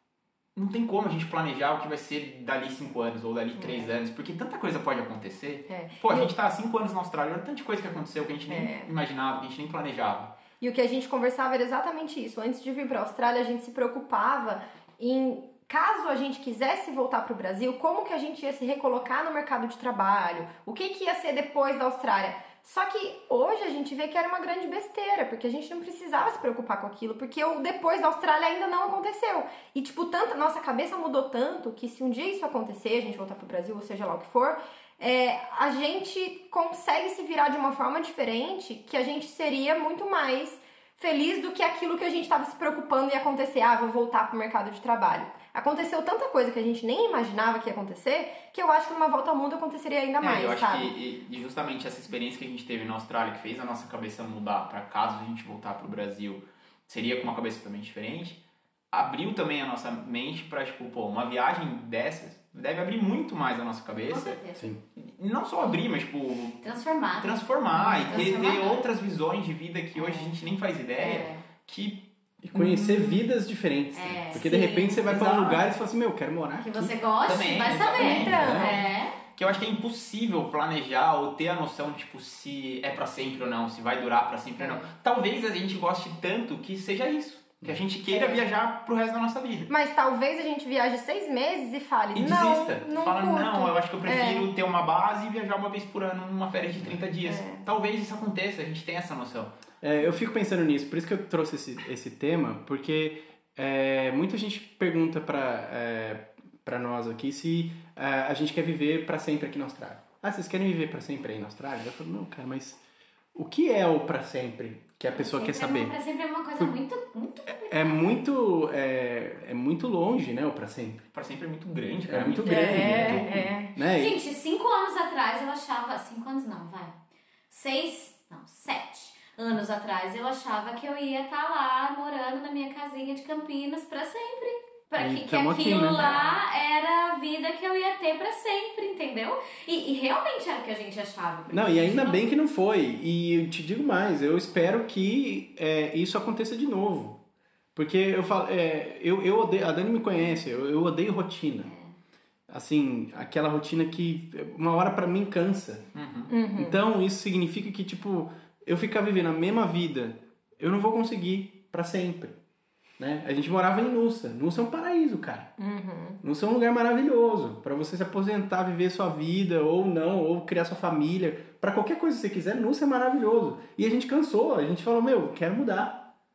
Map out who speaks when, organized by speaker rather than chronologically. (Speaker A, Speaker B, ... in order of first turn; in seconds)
Speaker A: 0.6-10.3, 50.2-58.4, 58.9-64.4, 65.0-66.6, 67.2-73.2, 75.1-75.6, 77.2-89.7, 92.1-99.5, 121.1-123.5, 155.9-156.3
Speaker B: 3.6-4.0, 5.7-6.3, 8.5-8.9, 10.6-50.9, 77.9-78.8, 88.1-88.4, 89.7-94.5, 97.2-97.6, 122.5-123.7, 156.3-156.8, 165.6-166.2
Speaker C: 64.1-64.7, 66.6-68.9, 70.0-70.3, 71.0-71.4, 73.9-75.5, 76.6-79.2, 115.1-118.2, 123.8-126.9, 127.5-142.2
Speaker D: 72.4-77.0, 78.2-78.7, 99.8-112.8, 113.3-115.9, 117.7-121.0, 122.1-124.2, 135.0-136.3, 141.5-147.2, 147.8-151.7, 152.5-155.9, 156.6-162.4, 163.0-165.5, 166.2-176.1